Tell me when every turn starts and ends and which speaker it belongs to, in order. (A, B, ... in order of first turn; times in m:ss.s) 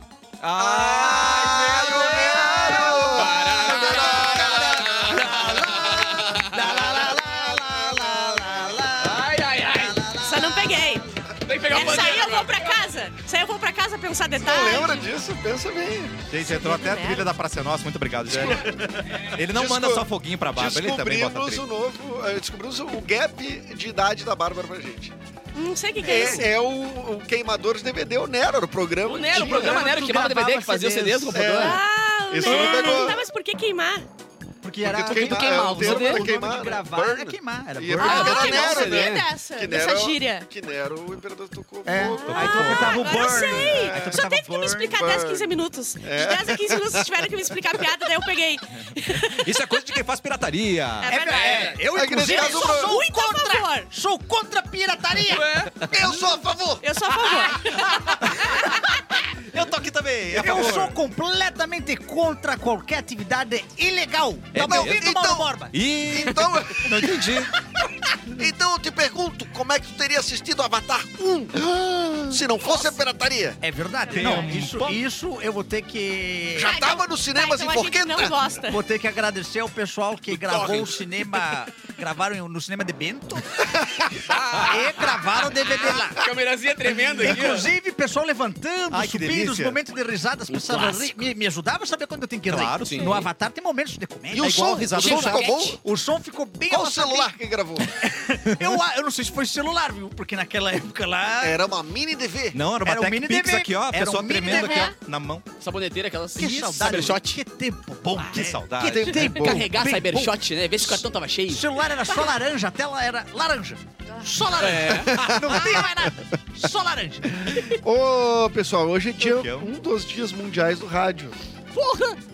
0:00.4-0:03.1 A
0:00.7-0:11.0 B
0:00.9-0:05.3 C
0:02.5-0:06.6 D
0:03.9-0:04.2 A
0:06.6-0:08.8 C
0:09.0-0:10.1 D
0:10.2-0:11.1 E
0:11.4-0:12.8 D
0:11.7-0:15.1 E
0:14.3-0:16.2 C
0:16.3-0:21.6 A
0:16.4-0:17.3 E
0:18.3-0:18.8 C
0:19.4-0:25.1 C
0:25.6-0:26.5 E
0:26.0-0:29.9 C
0:29.0-0:31.8 D
0:29.3-0:31.4 B
0:31.3-0:33.2 C
0:31.6-0:34.1 E
0:32.5-0:32.9 D
0:34.6-0:38.6 B
0:34.8-0:44.2 C
0:35.0-0:36.3 D
0:38.0-0:39.3 D
0:38.0-0:40.5 E
0:41.8-0:45.0 B
0:42.2-0:50.0 E
0:42.4-0:43.0 A
0:45.0-0:47.1 C
0:49.2-0:51.1 A
0:51.0-0:53.9 E
0:51.0-0:55.5 B
0:51.3-0:51.8 D
0:51.9-0:53.0 C
0:55.3-0:55.8 D
0:55.9-0:56.8 C
0:56.8-0:58.8 E
0:58.0-0:58.4 A
0:59.4-1:01.0 A
1:00.3-1:05.8 B
1:04.5-1:05.1 A
1:04.6-1:07.3 C
1:05.7-1:07.5 A
1:08.3-1:13.6 C
1:12.6-1:13.0 E
1:13.6-1:16.8 B
1:14.0-1:14.4 E
1:14.1-1:15.0 A
1:16.6-1:18.4 C
1:16.6-1:18.8 E
1:18.7-1:26.3 B
1:20.3-1:21.1 D
1:24.2-1:27.7 D
1:27.2-1:41.6 B
1:28.9-1:29.8 A
1:30.5-1:31.2 D
1:32.5-1:33.2 A
1:32.8-1:33.3 D
1:34.4-1:35.8 C
1:34.4-1:35.7 A
1:36.7-1:37.9 C
1:41.4-1:42.6 C
1:42.5-1:45.5 A
1:42.8-1:44.9 B
1:44.4-1:45.0 E
1:45.6-1:47.4 D
1:46.4-1:57.6 B
1:48.3-1:49.2 A
1:48.9-1:49.6 C
1:49.2-1:51.7 D
1:54.6-1:55.2 D
1:55.0-1:55.9 C
1:57.5-2:01.4 C
1:59.2-1:59.8 A
2:01.7-2:02.2 D